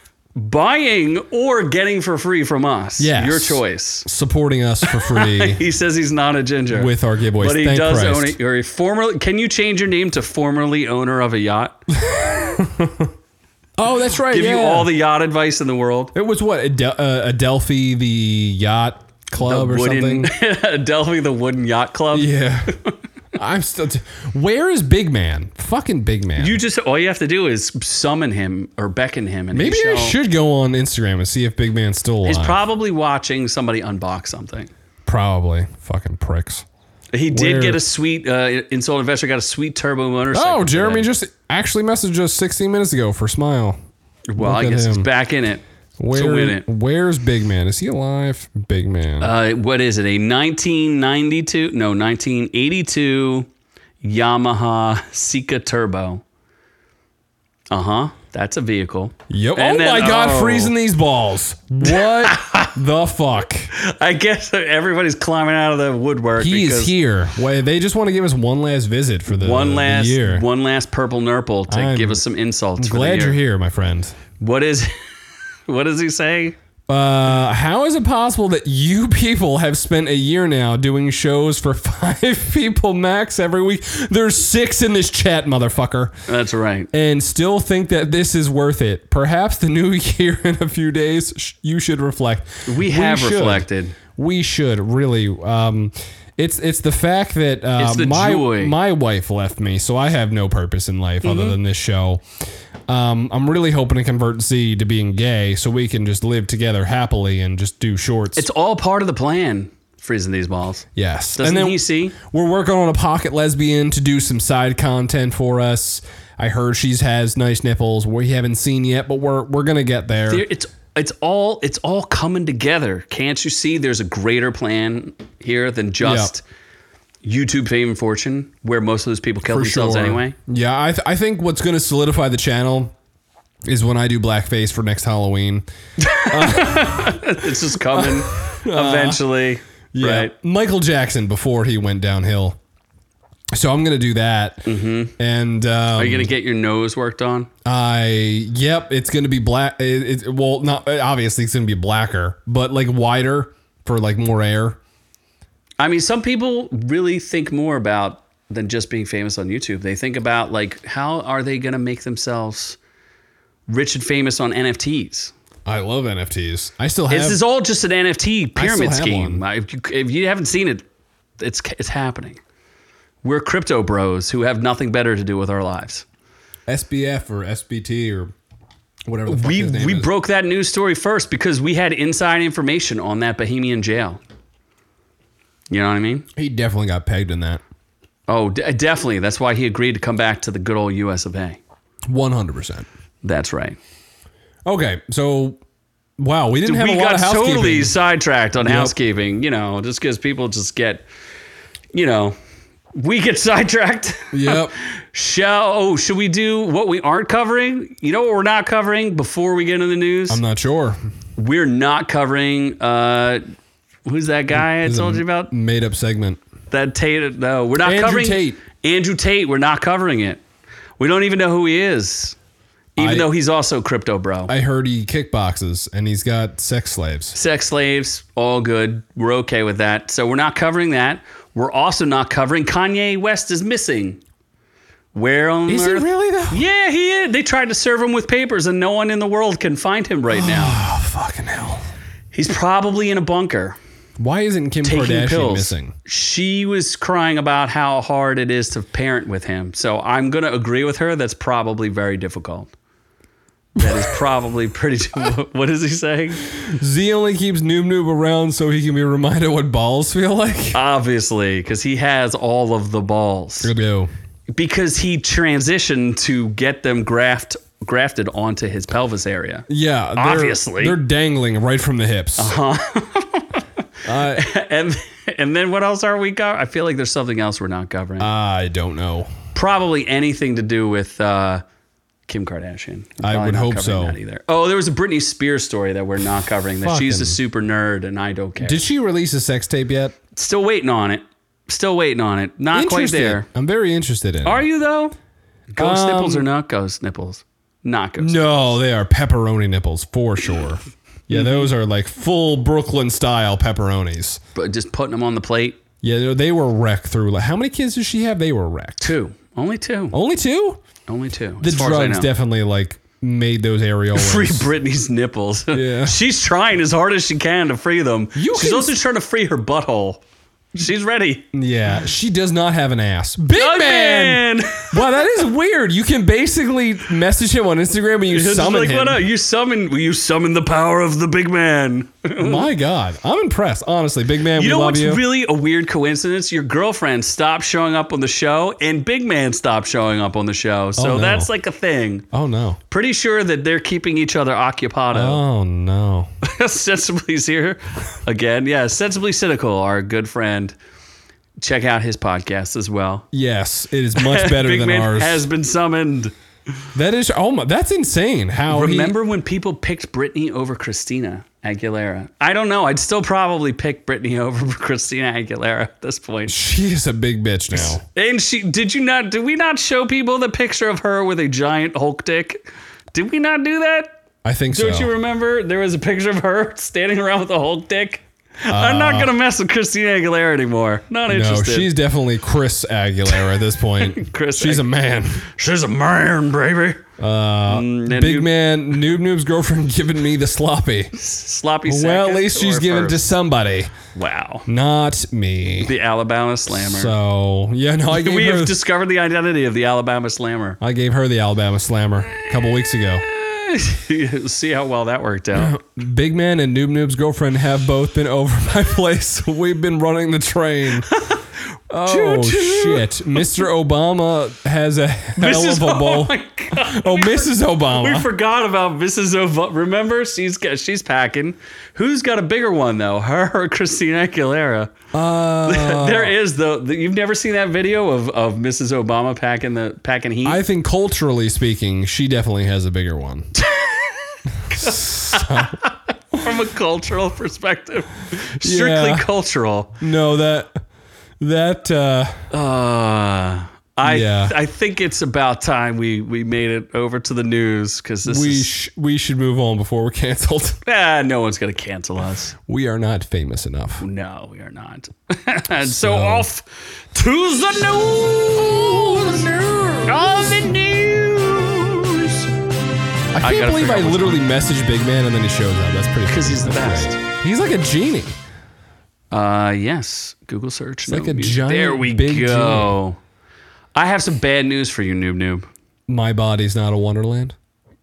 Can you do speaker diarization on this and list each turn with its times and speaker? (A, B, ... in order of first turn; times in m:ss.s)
0:00.4-0:04.1 A
0:03.0-0:05.6 B
0:04.8-0:11.8 A
0:06.7-0:08.4 B
0:11.9-0:13.1 B
0:13.8-0:14.9 B
0:14.3-0:16.1 A
0:16.1-0:20.3 B
0:19.4-0:22.3 A
0:22.1-0:22.7 B
0:23.4-0:26.6 B
0:26.4-0:30.2 A
0:29.5-0:32.6 B
0:32.2-0:34.7 A
0:35.1-0:36.7 B
0:37.1-0:41.1 A
0:37.3-0:37.8 B
0:40.3-0:43.8 B
0:44.3-0:46.7 A
0:44.4-0:45.1 B
0:46.0-0:49.3 B
0:49.2-0:53.5 A
0:54.0-0:56.2 A
0:57.7-1:00.7 A
0:59.3-1:03.7 B
1:01.8-1:02.7 A
1:03.7-1:07.0 A
1:06.4-1:10.4 B
1:09.3-1:13.4 A
1:11.7-1:12.2 B
1:12.8-1:14.2 B
1:14.4-1:15.0 A
1:15.7-1:16.6 A
1:16.9-1:26.1 B
1:26.3-1:26.9 A
1:26.9-1:42.2 B
1:32.7-1:34.0 A
1:37.8-1:38.8 A
1:41.2-1:41.6 A
1:42.9-1:48.5 B
1:48.4-1:52.2 A
1:51.0-2:00.4 B
2:00.2-2:06.4 A
2:06.0-2:06.3 B
2:07.2-2:10.4 A
2:09.5-2:12.9 B
2:13.7-2:15.6 B
2:16.0-2:20.3 A
2:16.3-2:19.2 B
2:19.9-2:22.6 B
2:23.5-2:24.7 B
2:24.7-2:25.2 A
2:25.2-2:26.3 B
2:26.0-2:27.5 A
2:27.6-2:34.8 B
2:35.8-2:42.8 A
2:43.7-2:45.3 A
2:45.7-2:47.4 B
2:47.1-2:50.8 A
2:48.6-2:49.4 B
2:51.4-2:52.4 A
2:53.2-2:56.0 A
2:56.7-2:58.3 B
2:59.1-3:00.1 B
2:59.3-3:04.2 A
3:05.7-3:06.3 A
3:06.4-3:07.6 B
3:08.3-3:11.6 A
3:12.1-3:12.9 B
3:13.2-3:13.8 A
3:14.6-3:15.6 B
3:16.2-3:18.0 B
3:16.6-3:21.1 A
3:18.6-3:19.0 B
3:21.9-3:22.4 A
3:23.0-3:30.4 A
3:24.3-3:24.8 B
3:30.3-3:31.0 B
3:31.4-3:33.4 A
3:34.1-3:35.5 A
3:34.5-3:36.4 B
3:36.7-3:40.4 A
3:37.8-3:38.6 B
3:41.0-3:42.4 A
3:43.0-3:44.5 A
3:43.0-3:43.3 B
3:44.5-3:47.4 B
3:47.3-3:54.2 A
3:55.2-4:00.8 A
3:55.7-3:56.6 B
4:00.3-4:01.8 B
4:02.3-4:03.8 A
4:04.2-4:05.9 B
4:04.8-4:12.7 A
4:13.8-4:14.2 B
4:13.8-4:16.4 A
4:16.4-4:20.8 B
4:20.7-4:23.7 A
4:23.6-4:24.1 B
4:24.5-4:29.7 A
4:29.7-4:32.6 B
4:30.2-4:31.0 A
4:32.4-4:38.3 A
4:34.1-4:34.5 B
4:38.2-4:39.3 B
4:39.5-4:41.6 A
4:42.3-4:48.8 A
4:43.2-4:44.2 B
4:46.8-4:47.4 B
4:48.6-4:50.2 B
4:50.4-4:53.5 A
4:52.7-4:54.7 B
4:54.4-4:55.2 A
4:55.7-4:58.7 A
4:55.8-4:56.5 B
4:58.2-5:04.4 B
5:01.3-5:01.7 A
5:04.6-5:05.8 A
5:06.0-5:09.1 B
5:09.0-5:10.2 A
5:10.1-5:10.8 B
5:11.1-5:12.3 A
5:11.6-5:14.7 B
5:14.1-5:20.2 A
5:15.7-5:16.2 B
5:18.4-5:19.0 B
5:20.8-5:21.5 A
5:21.5-5:29.2 B
5:23.5-5:25.0 A
5:28.3-5:32.7 A
5:32.4-5:35.2 B
5:34.6-5:42.3 A
5:41.0-5:41.5 B
5:42.3-5:42.8 B
5:42.9-5:45.4 A
5:45.1-5:46.3 B
5:46.4-5:50.8 A
5:51.6-5:53.3 A
5:53.3-5:55.5 B
5:54.2-5:56.3 A
5:57.0-5:59.1 B
5:58.7-6:06.6 A
6:06.5-6:08.0 B
6:07.7-6:14.1 A
6:14.4-6:15.1 B
6:14.7-6:21.9 A
6:18.7-6:19.3 B
6:21.3-6:25.4 B
6:24.0-6:27.1 A
6:27.2-6:31.1 B
6:27.7-6:28.5 A
6:31.2-6:33.3 A
6:31.9-6:33.9 B
6:34.2-6:34.7 A
6:34.7-6:35.9 B
6:35.8-6:37.1 A
6:36.7-6:38.8 B
6:38.1-6:40.8 A
6:40.8-6:43.2 B
6:42.3-6:45.8 A
6:45.5-6:51.1 B
6:51.1-6:51.5 A
6:51.9-6:58.3 B
6:52.0-6:53.6 A
6:55.4-7:04.9 A
7:05.1-7:06.4 B
7:05.6-7:10.6 A
7:10.4-7:13.5 B
7:13.6-7:20.0 A
7:14.7-7:15.8 B
7:18.6-7:19.3 B
7:20.0-7:20.8 B
7:21.4-7:22.4 B
7:22.5-7:28.7 A
7:24.0-7:24.6 B
7:28.2-7:30.8 B
7:30.9-7:32.6 A
7:32.7-7:34.0 B
7:34.0-7:39.5 A
7:35.8-7:36.5 B
7:38.6-7:40.7 B
7:40.0-7:42.5 A
7:43.3-7:48.4 B
7:43.4-7:44.4 A
7:46.3-7:47.2 A
7:49.3-7:53.2 A
7:51.1-7:53.0 B
7:54.0-7:55.7 A
7:56.1-7:57.6 B